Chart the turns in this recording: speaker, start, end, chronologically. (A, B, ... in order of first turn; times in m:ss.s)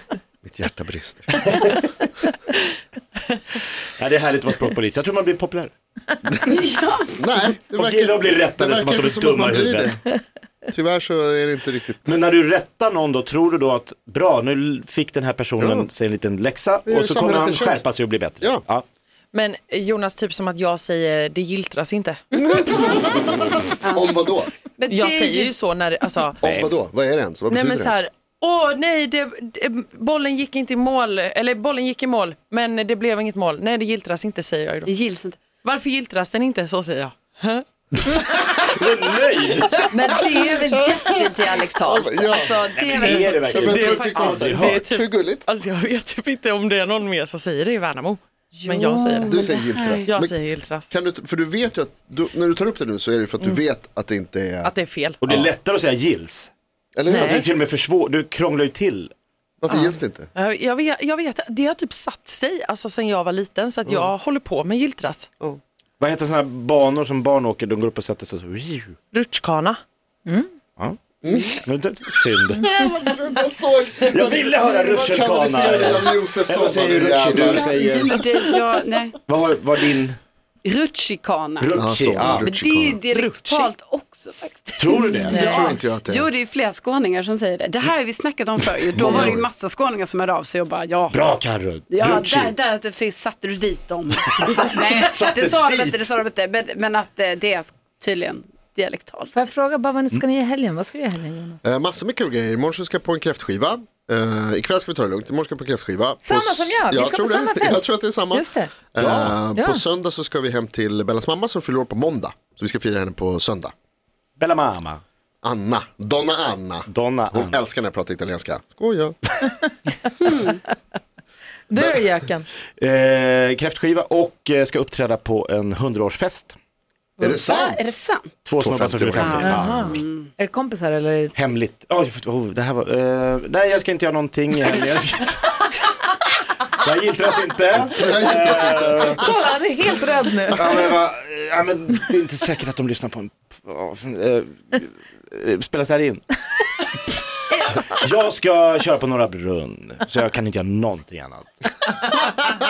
0:00.4-0:01.5 A
0:04.0-0:05.7 B
0:06.4-0:07.3 C
0:07.2-0:10.0 A
0:07.7-0:10.0 B
0:10.7-0:12.1 A
0:12.0-0:18.9 B
0:15.6-0:15.9 A
0:16.9-0:17.9 A
0:19.3-0:22.2 D
0:22.3-0:24.5 A
0:23.8-0:24.1 C
0:24.8-0:25.5 C
0:24.9-0:26.4 D
0:26.4-0:28.0 A
0:26.4-0:26.8 B
0:27.5-0:35.0 D
0:34.9-0:35.4 C
0:35.6-0:38.6 D
0:38.0-0:39.9 B
0:39.7-0:39.9 D
0:39.9-0:44.2 C
0:41.8-0:45.5 A
0:42.6-0:44.8 B
0:43.7-0:50.9 D
0:48.6-0:50.2 C
0:49.3-0:50.4 A
0:50.9-0:54.7 A
0:54.6-0:55.3 D
0:55.2-0:56.5 B
0:55.3-0:55.5 A
0:57.0-0:57.5 A
0:57.1-0:57.5 D
0:57.1-0:59.1 B
0:59.6-1:00.3 A
0:59.7-1:05.3 D
1:03.9-1:04.1 A
1:06.0-1:09.0 B
1:09.1-1:09.8 D
1:11.2-1:11.6 A
1:11.6-1:12.7 B
1:12.6-1:18.2 A
1:14.1-1:18.5 B
1:17.3-1:19.2 C
1:19.3-1:20.2 B
1:20.6-1:31.2 C
1:21.6-1:22.5 B
1:21.7-1:23.0 A
1:23.1-1:23.7 D
1:24.8-1:25.6 B
1:25.2-1:25.8 E
1:25.3-1:26.3 A
1:29.0-1:29.5 A
1:29.0-1:29.4 B
1:31.1-1:32.5 B
1:31.9-1:39.5 C
1:34.3-1:36.1 B
1:39.3-1:41.6 E
1:41.6-1:53.7 A
1:46.2-1:48.7 E
1:49.0-1:49.4 B
1:49.5-1:49.8 E
1:54.4-1:55.0 B
1:55.4-1:59.2 A
1:56.9-1:57.6 B
2:00.2-2:00.6 C
2:01.7-2:02.5 E
2:01.7-2:02.1 A
2:02.8-2:06.6 B
2:07.2-2:08.4 C
2:07.2-2:07.9 A
2:08.4-2:09.8 B
2:08.6-2:10.0 A
2:09.2-2:10.3 C
2:09.4-2:11.3 E
2:11.4-2:15.9 B
2:16.7-2:19.3 B
2:17.8-2:19.2 A
2:19.2-2:20.8 E
2:20.6-2:26.2 B
2:27.9-2:31.5 B